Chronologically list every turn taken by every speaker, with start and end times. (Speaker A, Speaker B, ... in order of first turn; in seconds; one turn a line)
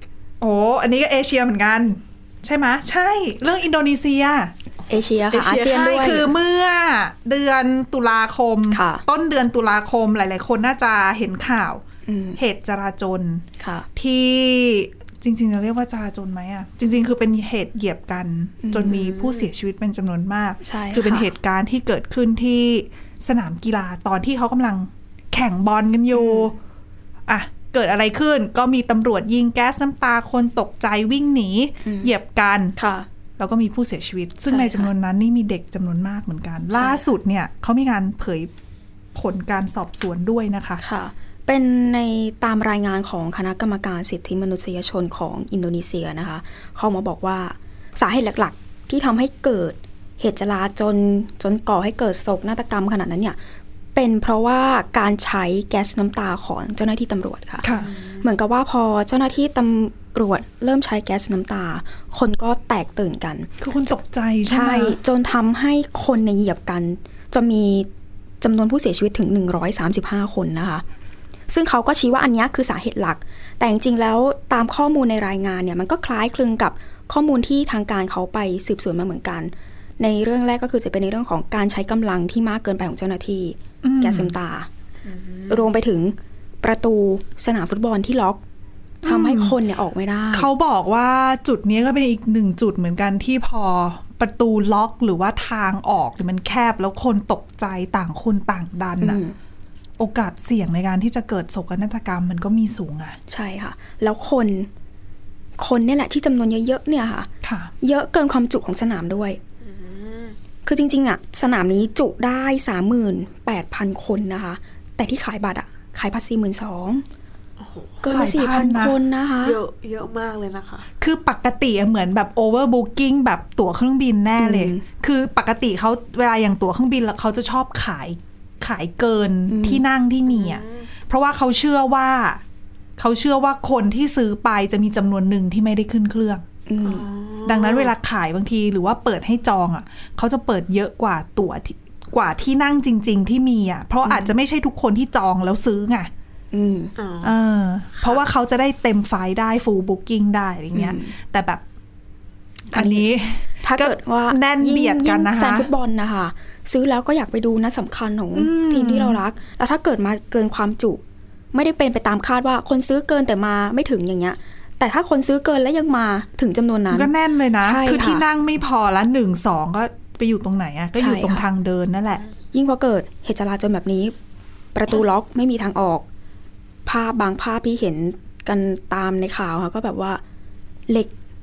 Speaker A: 0.4-4.5
Speaker B: 4.9-6.3
Speaker C: 5.3-6.2
Speaker A: 5.5-11.8
Speaker B: 8.7-9.0
Speaker B: 12.1-12.4
Speaker A: 12.4-13.4
Speaker B: 13.6-13.9
Speaker A: 14.0-26.6
Speaker B: 18.6-19.1
Speaker B: 20.6-21.3
Speaker B: 26.1-26.5
Speaker A: 27.3-32.8
Speaker B: 31.8-32.1
Speaker B: 32.8-33.1
Speaker A: 33.4-38.5
Speaker B: 34.5-34.9
Speaker B: 36.7-37.0
Speaker A: 39.1-40.8
Speaker B: 40.8-53.4
Speaker B: 54.0-57.7
Speaker A: 57.6-57.9
Speaker C: 57.9-58.2
Speaker B: 58.2-63.5
Speaker A: 63.6-65.0
Speaker B: 64.5-67.9
Speaker B: 68.4-70.8
Speaker B: 71.5-84.7
Speaker A: 83.8-84.3
Speaker B: 85.5-88.4
Speaker B: 89.0-90.5
Speaker A: 89.0-89.5
Speaker A: 90.3-99.2
Speaker B: 99.0-99.3
Speaker A: 100.0-103.2
Speaker B: 103.3-104.7
Speaker B: 105.6-107.3
Speaker A: 107.4-107.7
Speaker B: 107.8-109.4
Speaker C: 109.7-110.4
Speaker B: 110.7-117.0
Speaker C: 117.6-117.9
Speaker B: 118.0-119.6
Speaker A: 118.1-119.0
Speaker C: 119.5-120.9
Speaker A: 121.0-132.4
Speaker B: 124.4-124.8
Speaker B: 129.5-129.8
Speaker C: 130.3-130.8
Speaker A: 133.0-136.4
Speaker B: 136.7-137.1
Speaker C: 136.8-137.9
Speaker A: 137.4-146.1
Speaker B: 144.1-144.3
Speaker B: 146.5-146.9
Speaker C: 147.0-147.3
Speaker A: 147.2-151.6
Speaker B: 150.7-151.1
Speaker A: 152.7-155.7
Speaker B: 152.7-161.0
Speaker A: 158.3-159.2
Speaker B: 161.5-167.1
Speaker A: 166.9-172.2
Speaker B: 167.6-168.2
Speaker B: 171.0-171.5
Speaker B: 172.5-174.2
Speaker B: 174.8-176.1
Speaker B: 176.9-180.2